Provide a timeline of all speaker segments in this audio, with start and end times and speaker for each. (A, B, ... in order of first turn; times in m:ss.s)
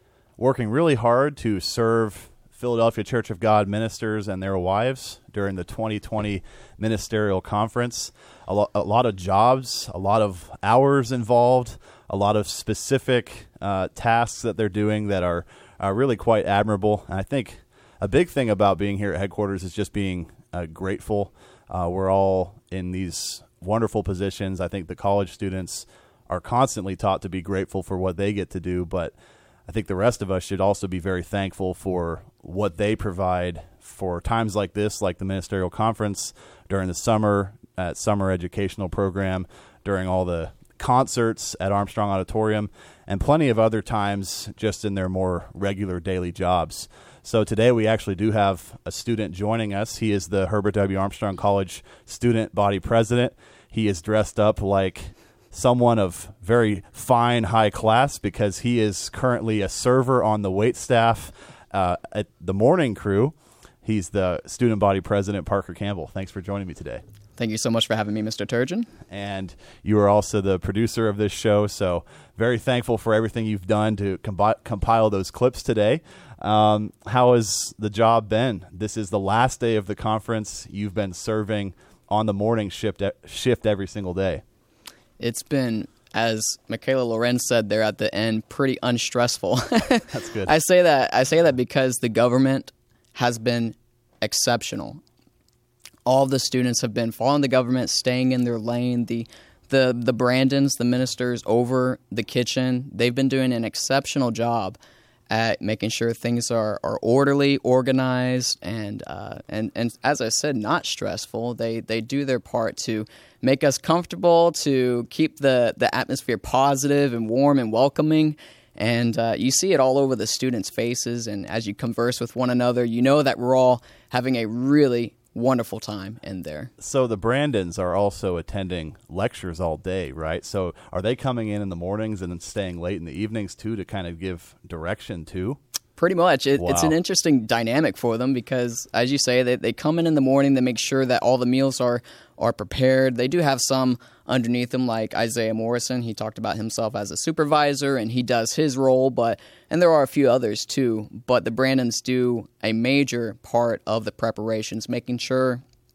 0:00.4-0:29.1 A
0:29.7-1:07.0 A
1:07.4-1:08.9 B
1:09.1-1:24.4 A
1:25.2-1:35.0 B
1:30.1-1:30.5 A
1:36.0-1:44.8 B
1:45.3-2:06.7 B
2:06.8-2:15.6 A
2:16.0-2:35.6 B
2:16.6-2:16.9 A